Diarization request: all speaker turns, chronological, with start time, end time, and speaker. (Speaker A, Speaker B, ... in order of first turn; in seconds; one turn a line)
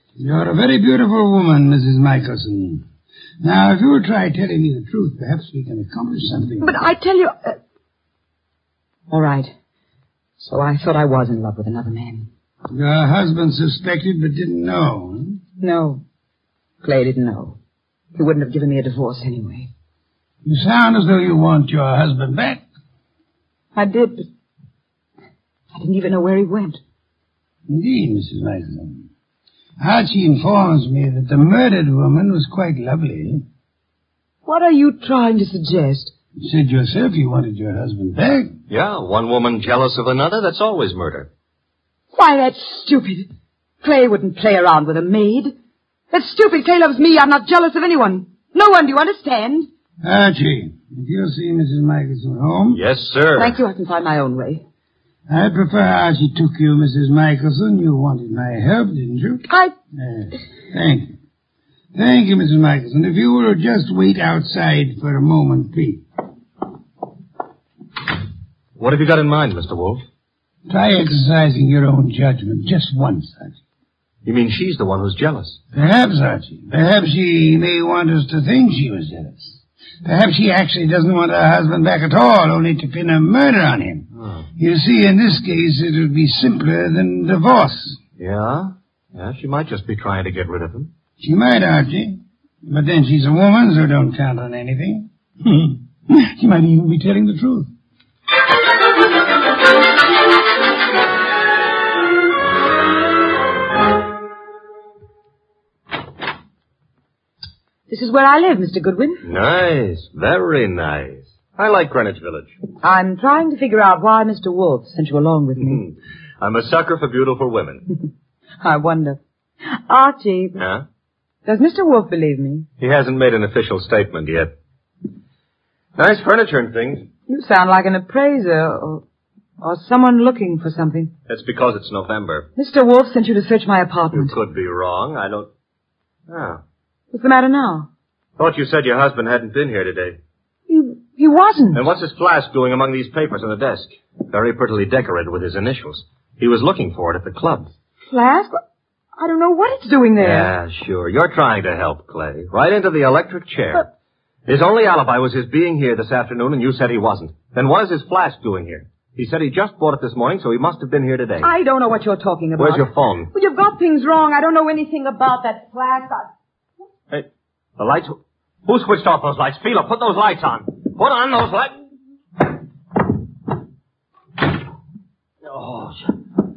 Speaker A: 0.2-2.8
Speaker A: 3.4-6.7
Speaker B: 6.6-7.6
Speaker B: 9.1-9.5
Speaker B: 10.4-12.3
Speaker A: 12.7-15.4
Speaker B: 15.6-16.0
Speaker B: 16.8-17.6
Speaker B: 18.1-19.7
Speaker A: 20.4-22.6
Speaker B: 23.7-24.2
Speaker B: 25.7-26.8
Speaker A: 27.7-29.1
Speaker A: 29.8-33.4
Speaker B: 34.5-36.1
Speaker A: 36.4-38.5
Speaker C: 38.7-41.3
Speaker B: 42.1-43.3
Speaker B: 43.8-45.5
Speaker B: 46.1-49.7
Speaker A: 50.0-52.8
Speaker C: 52.7-53.5
Speaker B: 53.4-54.6
Speaker A: 55.3-61.1
Speaker A: 61.9-66.0
Speaker C: 68.8-70.0
Speaker A: 70.7-73.5
Speaker C: 74.2-75.6
Speaker A: 75.7-84.0
Speaker C: 84.2-84.5
Speaker A: 84.6-88.0
Speaker C: 88.2-90.9
Speaker A: 91.2-97.7
Speaker B: 107.9-109.2
Speaker C: 109.2-112.5
Speaker B: 112.8-115.8
Speaker C: 115.6-117.8
Speaker B: 118.6-120.6
Speaker C: 120.6-120.8
Speaker B: 121.5-122.7
Speaker C: 122.8-124.5
Speaker C: 126.0-127.1
Speaker B: 127.3-129.0
Speaker B: 129.6-131.1
Speaker C: 131.3-132.5
Speaker B: 132.6-134.3
Speaker C: 134.1-135.5
Speaker C: 136.3-136.6
Speaker B: 137.1-137.9
Speaker C: 138.4-140.2
Speaker B: 140.7-141.8
Speaker C: 141.7-147.7
Speaker B: 148.1-148.6
Speaker B: 149.2-150.5
Speaker C: 150.2-153.9
Speaker C: 154.4-161.5
Speaker B: 161.4-166.3
Speaker C: 162.6-163.3
Speaker C: 167.1-171.7
Speaker C: 175.4-176.0